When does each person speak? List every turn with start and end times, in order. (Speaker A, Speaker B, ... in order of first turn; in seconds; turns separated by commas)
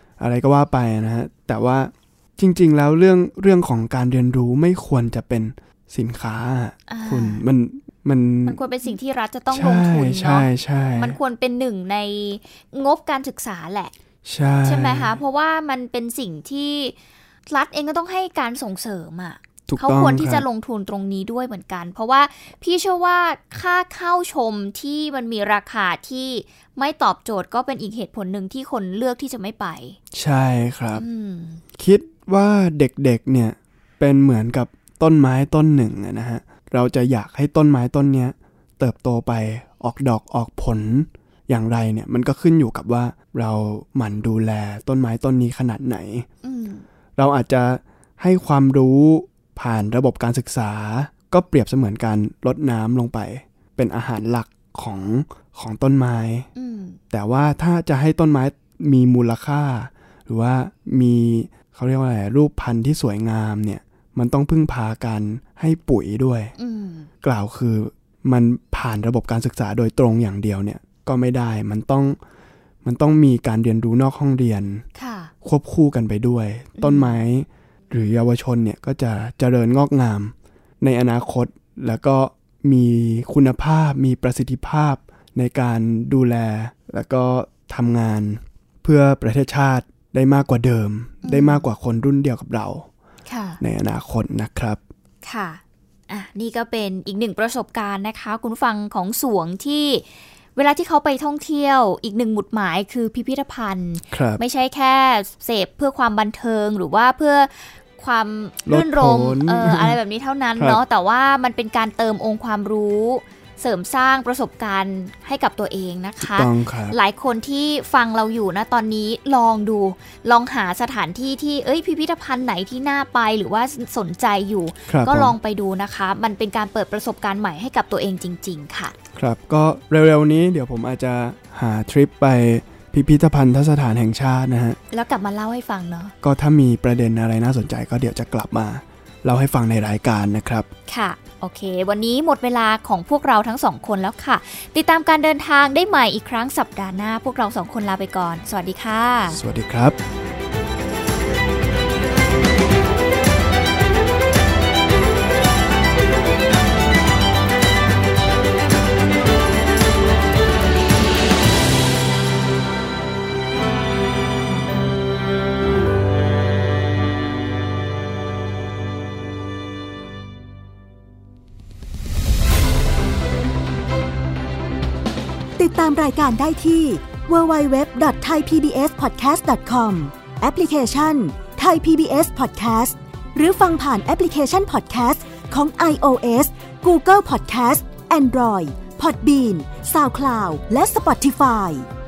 Speaker A: 0.2-8.6, Speaker B: 6.9-7.4, Speaker B: 8.5-13.9, Speaker A: 9.5-11.2, Speaker A: 14.2-15.2, Speaker B: 14.6-17.0, Speaker B: 17.5-30.0, Speaker A: 19.7-20.4, Speaker A: 30.1-31.0, Speaker B: 30.9-31.6, Speaker A: 31.8-46.3, Speaker B: 46.4-46.9, Speaker A: 47.2-56.5, Speaker B: 56.6-57.0, Speaker A: 57.1-66.5, Speaker B: 66.6-67.1, Speaker A: 67.2-72.2, Speaker A: 72.8-74.9, Speaker B: 75.0-75.3, Speaker A: 75.4-92.9, Speaker B: 76.8-77.2, Speaker B: 91.2-91.7, Speaker B: 93.3-93.6, Speaker A: 93.6-94.8, Speaker B: 95.2-100.0, Speaker B: 100.6-128.9, Speaker A: 104.1-104.4, Speaker A: 108.7-110.0, Speaker A: 116.2-117.0, Speaker A: 124.9-125.4, Speaker A: 129.1-134.8, Speaker B: 134.9-136.1, Speaker A: 136.2-140.7, Speaker B: 140.9-149.4, Speaker A: 149.3-150.0, Speaker C: 175.6-191.9